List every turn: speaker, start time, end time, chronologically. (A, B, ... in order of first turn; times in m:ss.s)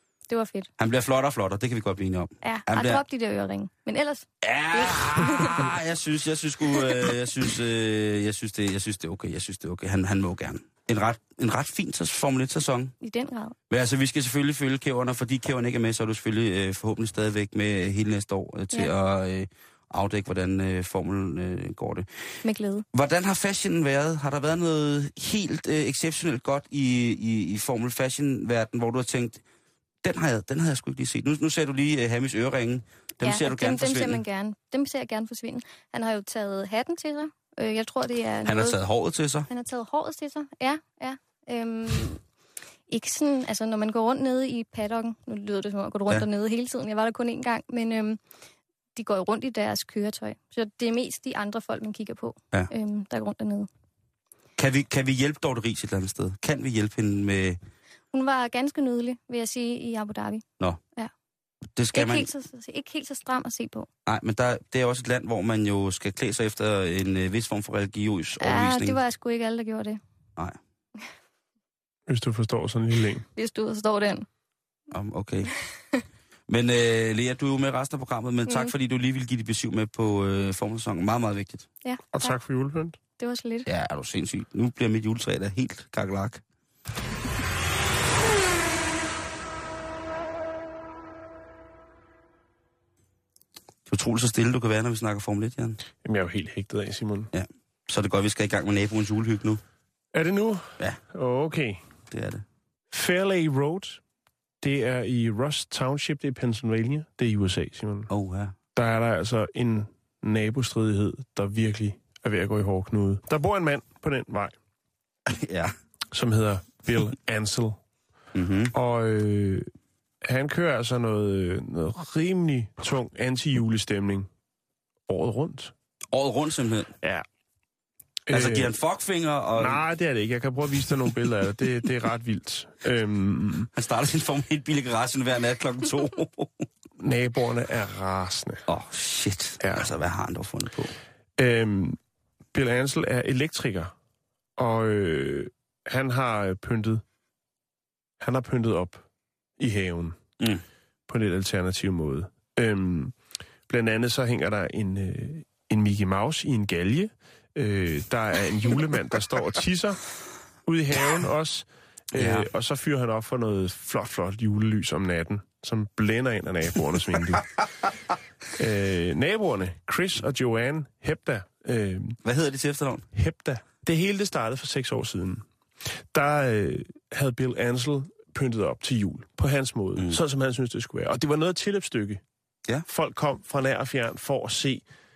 0:00.3-0:00.7 A
0:00.8-0:03.0 B
0:02.4-0:05.7 A
0:04.4-0:12.9 B
0:06.8-0:07.1 A
0:13.0-0:13.6 A
0:13.7-0:22.1 B
0:22.4-0:22.8 A
0:22.9-0:29.4 B
0:30.0-0:34.2 B
0:33.2-0:38.8 A
0:38.4-0:39.5 B
0:39.5-0:42.2 A
0:42.9-0:48.2 A
0:49.0-0:53.7 A
0:54.6-0:57.6 B
0:58.1-1:00.4 A
1:01.8-1:02.3 B
1:01.9-1:03.9 A
1:04.0-1:09.0 B
1:08.4-1:10.0 A
1:12.1-1:13.2 C
1:13.3-1:14.3 A
1:14.9-1:15.5 B
1:16.5-1:21.7 B
1:18.5-1:18.7 A
1:21.8-1:22.4 A
1:22.1-1:23.0 C
1:23.2-1:23.7 A
1:23.6-1:26.4 B
1:33.9-1:35.8 B
1:36.0-1:37.3 C
1:37.3-1:39.6 B
1:40.1-1:41.8 C
1:42.1-1:42.4 B
1:42.9-1:44.0 C
1:44.6-1:48.1 C
1:48.1-1:48.6 B
1:48.7-1:54.5 C
1:55.3-1:55.7 B
1:56.1-1:57.8 C
1:58.3-1:58.7 B
1:58.7-1:59.7 C
2:00.2-2:04.3 C
2:05.1-2:05.7 C
2:06.1-2:06.9 B
2:08.3-2:08.7 C
2:08.3-2:09.8 B
2:09.6-2:13.7 C
2:13.7-2:16.7 B
2:17.0-2:18.6 C
2:18.7-2:20.9 B
2:19.6-2:19.9 C
2:21.4-2:22.0 C
2:22.5-2:23.9 C
2:24.6-2:27.0 C
2:28.2-2:29.0 C
2:29.6-2:30.2 C
2:31.1-2:33.2 C
2:33.7-2:40.1 C
2:40.7-2:47.6 C
2:42.1-2:42.5 B
2:48.6-2:52.2 C
2:52.2-2:53.1 B
2:53.1-2:55.4 C
2:56.1-3:02.2 C
3:00.0-3:00.2 B
3:02.9-3:04.8 C